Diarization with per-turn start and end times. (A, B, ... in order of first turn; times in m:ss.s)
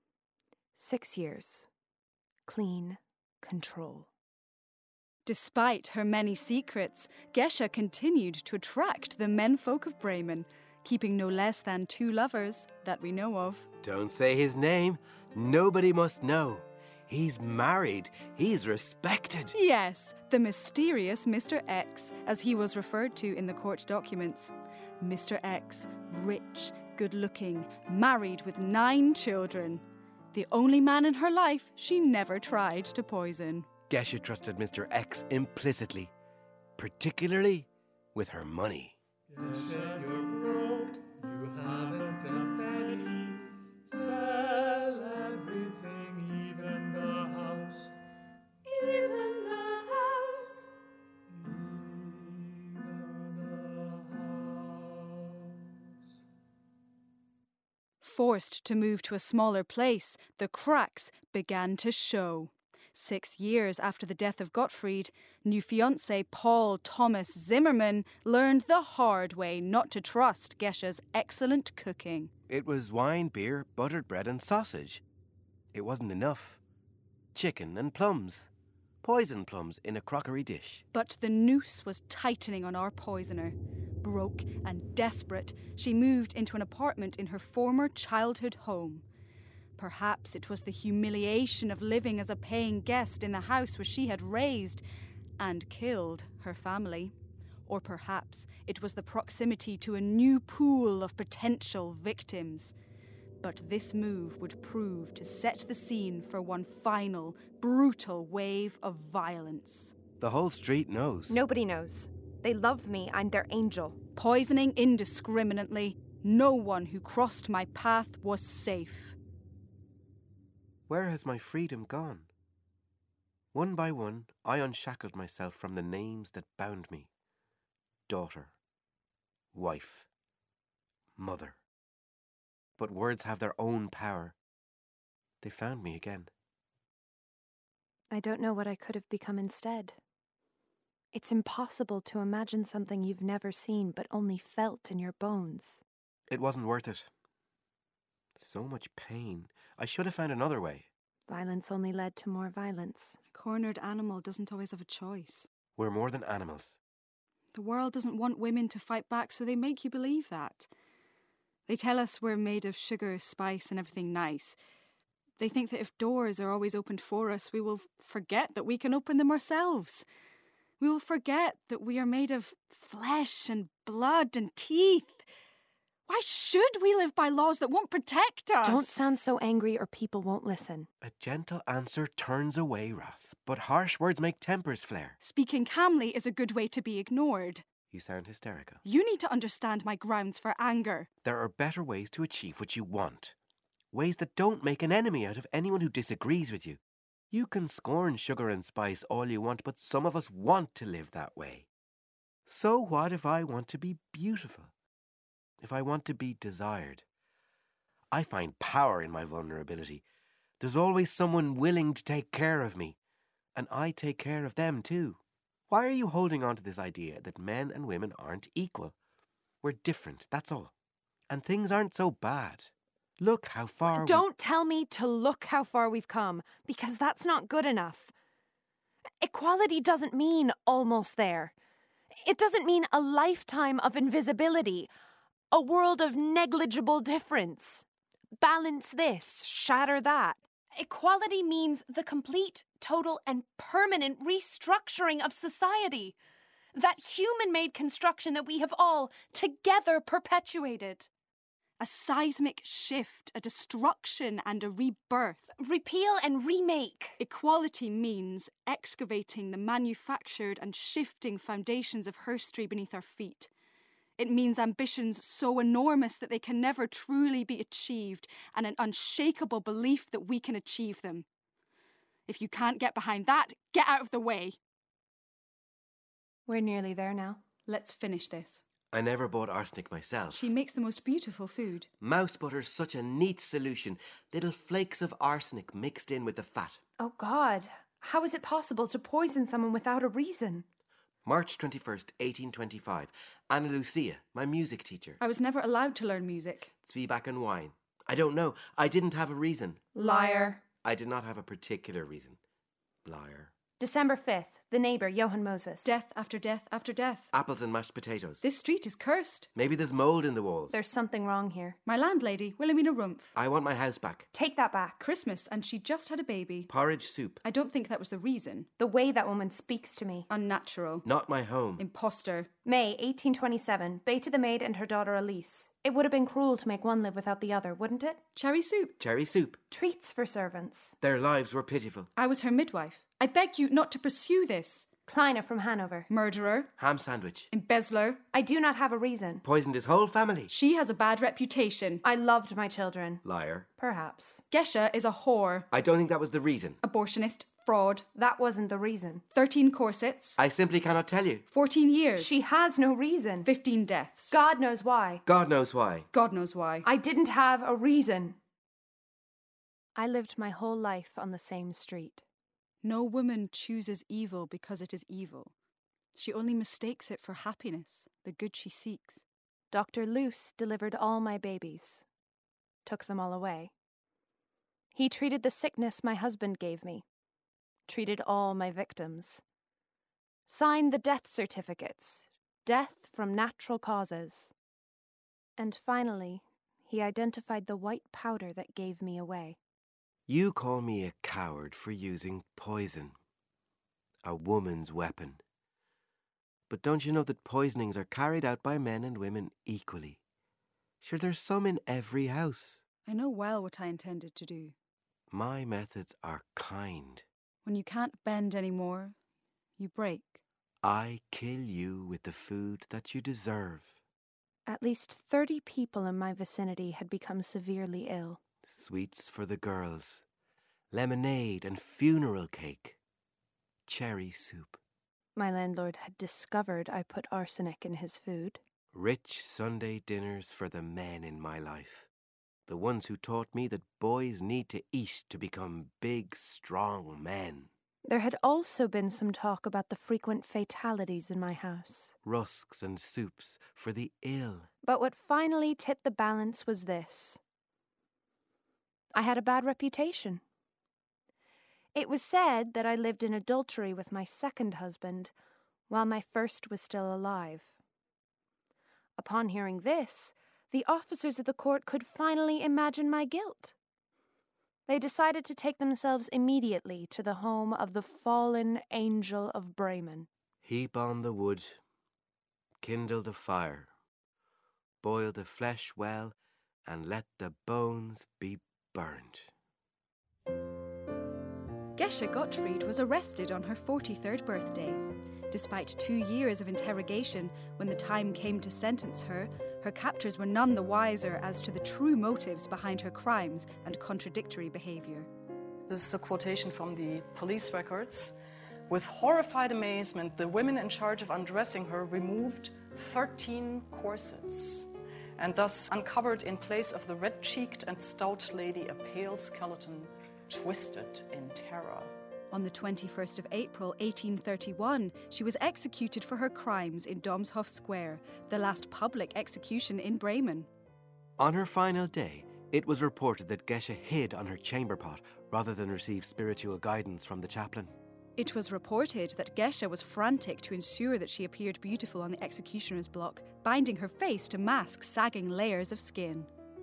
0:00.8-0:01.7 A
0:02.5-0:04.1 A
0:05.2-0:13.7 B
0:13.8-0:19.6 C
0:19.5-0:33.7 B
0:33.9-0:36.1 C
0:36.8-0:39.0 C
0:39.3-0:47.9 D
0:48.6-0:50.7 E
0:51.4-0:55.6 D
0:58.0-1:12.3 B
1:12.5-1:15.0 C
1:15.7-1:16.6 C
1:17.3-1:18.5 C
1:19.0-1:20.8 C
1:20.9-1:29.0 B
1:29.8-1:34.8 B
1:35.4-1:37.1 B
1:37.7-1:42.7 B
1:43.4-1:49.9 B
1:50.2-1:51.4 C
1:51.3-1:54.0 A
1:54.2-1:59.2 B
2:00.9-2:02.3 C
2:03.5-2:07.1 C
2:08.1-2:08.5 C
2:09.5-2:10.1 C
2:11.2-2:11.6 C
2:12.8-2:14.4 C
2:15.4-2:16.3 C
2:18.1-2:20.0 A
2:21.1-2:25.8 A
2:26.3-2:27.1 C
2:28.4-2:30.9 C
2:31.3-2:33.2 A
2:33.3-2:35.5 B
2:35.8-2:36.8 C
2:37.5-2:40.7 B
2:41.7-2:44.6 B
2:45.4-2:50.0 B
2:50.8-2:55.2 B
2:56.1-2:58.9 B
2:58.6-3:00.9 A
3:01.0-3:05.2 C
3:05.2-3:07.6 B
3:07.9-3:08.8 C
3:08.8-3:11.1 B
3:11.2-3:13.4 C
3:13.9-3:16.8 C
3:17.3-3:21.7 C
3:22.5-3:24.7 C
3:25.6-3:27.0 C
3:28.1-3:30.0 C
3:30.6-3:33.0 C
3:33.6-3:35.2 C
3:35.7-3:39.0 C
3:39.6-3:40.7 C
3:41.3-3:44.3 C
3:43.9-3:48.1 A
3:49.2-3:51.5 A
3:52.2-3:54.9 A
3:55.5-3:57.9 A
3:58.4-4:06.2 A
4:06.7-4:11.1 A
4:11.8-4:15.5 B
4:15.6-4:17.2 A
4:17.2-4:23.5 B
4:24.2-4:31.2 B
4:32.3-4:34.6 B
4:36.5-4:37.4 A
4:37.7-4:38.6 B
4:38.9-4:40.5 C
4:40.3-4:41.9 B
4:42.0-4:46.8 C
4:47.0-4:50.7 A
4:51.2-4:55.2 C
4:55.2-4:56.7 B
4:56.8-4:59.9 C
5:00.0-5:00.6 A
5:00.0-5:00.6 B
5:00.8-5:02.4 C
5:03.0-5:03.5 C
5:03.8-5:06.0 A
5:05.8-5:07.3 B
5:07.3-5:08.4 C
5:08.4-5:09.5 B
5:09.6-5:10.8 C
5:10.7-5:11.8 A
5:11.9-5:13.3 B
5:13.4-5:14.3 C
5:14.3-5:15.0 A
5:15.0-5:16.7 B
5:16.7-5:17.4 C
5:17.4-5:18.7 B
5:18.8-5:20.3 A
5:20.3-5:21.1 B
5:21.0-5:21.8 C
5:21.8-5:22.5 B
5:22.6-5:28.2 A
5:28.4-5:29.0 B
5:29.0-5:29.6 C
5:29.7-5:31.0 A
5:31.0-5:32.1 C
5:32.2-5:34.9 B
5:35.1-5:36.1 A
5:36.1-5:36.7 B
5:36.8-5:37.5 C
5:37.5-5:38.2 B
5:38.3-5:39.4 A
5:39.4-5:40.5 C
5:40.5-5:42.0 B
5:42.0-5:43.2 A
5:43.2-5:43.7 C
5:43.8-5:44.4 A
5:44.5-5:45.7 B
5:45.7-5:46.8 C
5:46.8-5:48.1 B
5:48.2-5:49.2 A
5:49.3-5:50.4 B
5:50.4-5:51.4 C
5:51.5-5:52.4 B
5:52.2-5:53.5 A
5:53.4-5:54.4 B
5:54.3-5:55.2 A
5:55.3-5:56.1 C
5:56.1-5:56.9 B
5:56.8-5:58.4 A
6:00.0-6:02.2 A
6:02.8-6:05.5 B
6:06.2-6:09.2 B
6:09.7-6:12.0 A
6:12.8-6:13.7 A
6:14.9-6:17.0 A
6:17.9-6:19.4 A
6:20.5-6:24.5 A
6:25.6-6:29.6 A
6:30.3-6:33.2 C
6:34.2-6:35.4 C
6:36.7-6:40.2 C
6:41.0-6:42.8 C
6:43.1-6:44.7 B
6:45.3-6:47.3 C
6:47.6-6:49.2 B
6:49.8-6:50.4 B
6:50.8-6:54.0 C
6:54.7-6:58.4 A
6:58.6-7:00.2 C
7:00.9-7:03.0 C
7:03.9-7:04.8 C
7:05.4-7:08.6 A
7:08.9-7:12.1 C
7:12.7-7:17.7 C
7:18.1-7:22.1 A
7:22.2-7:24.7 C
7:24.8-7:27.4 A
7:29.1-7:30.4 A
7:31.9-7:35.3 A
7:35.9-7:37.8 A
7:39.2-7:43.8 A
7:44.9-7:50.3 A
7:50.6-7:51.8 C
7:52.8-7:53.9 C
7:55.0-7:59.5 C
8:02.0-8:15.3 B
8:15.9-8:18.4 F
8:18.9-8:32.1 F
8:32.5-8:40.7 B
8:41.4-8:47.9 C
8:48.4-8:56.5 B